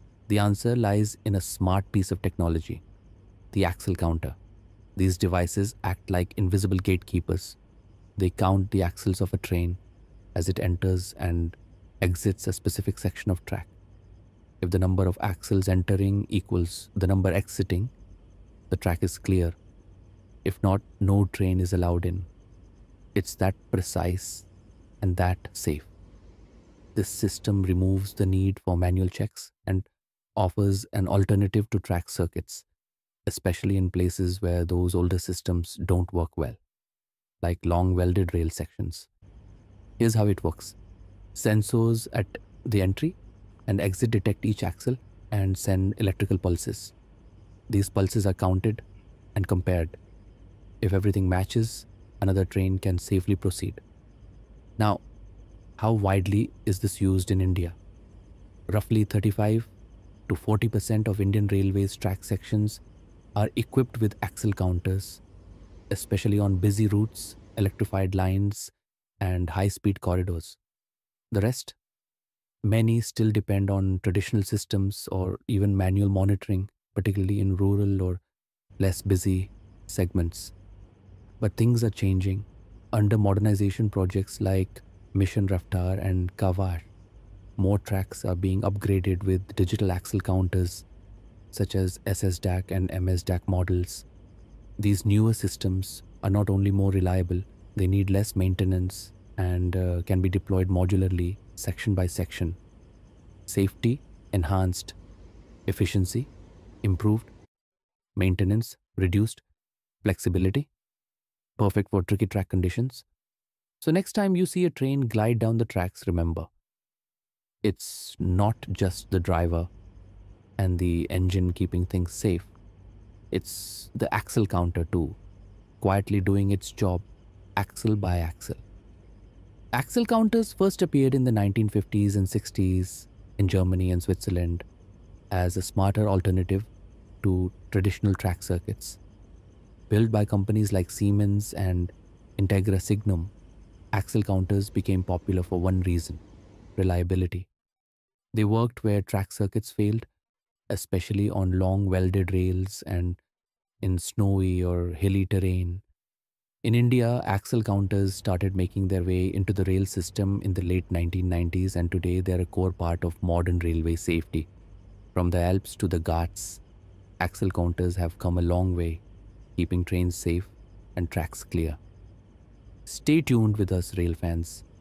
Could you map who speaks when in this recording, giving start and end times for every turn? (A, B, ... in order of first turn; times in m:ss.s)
0:00.3-0:02.8 A
0:03.5-0:04.4 A
0:05.0-0:07.6 A
0:08.2-0:09.8 A
0:10.3-0:13.7 A
0:14.6-0:17.9 A
0:18.7-0:19.6 A
0:20.4-0:22.3 A
0:23.1-0:24.5 A
0:25.0-0:25.9 A
0:26.9-0:32.6 A
0:33.3-0:36.6 A
0:37.4-0:39.1 A
0:40.0-0:40.8 A
0:41.3-0:46.9 A
0:47.7-0:48.8 A
0:49.3-0:50.0 A
0:50.8-0:53.8 A
0:55.8-0:57.8 A
0:58.7-0:59.7 A
1:00.3-1:02.8 A
1:03.4-1:05.2 A
1:05.9-1:10.6 A
1:11.3-1:11.8 A
1:12.6-1:18.2 A
1:18.8-1:20.5 A
1:21.4-1:26.9 A
1:27.6-1:30.8 A
1:31.5-1:34.0 A
1:34.8-1:42.6 A
1:43.5-1:45.0 A
1:45.7-1:46.3 A
1:46.8-1:47.3 A
1:48.2-1:49.4 A
1:50.0-1:50.7 A
1:51.6-1:53.0 A
1:53.8-1:56.5 A
1:57.6-1:59.7 A
2:00.6-2:02.5 A
2:03.3-2:05.2 A
2:05.8-2:07.0 A
2:07.6-2:08.6 A
2:09.7-2:14.6 A
2:15.3-2:16.7 A
2:17.2-2:19.0 A
2:19.9-2:23.3 A
2:23.9-2:26.2 A
2:26.8-2:27.5 A
2:28.3-2:30.0 A
2:30.7-2:33.2 A
2:33.8-2:35.8 A
2:36.6-2:44.5 A
2:45.1-2:46.6 A
2:47.2-2:49.0 A
2:49.6-2:51.8 A
2:52.8-2:54.6 A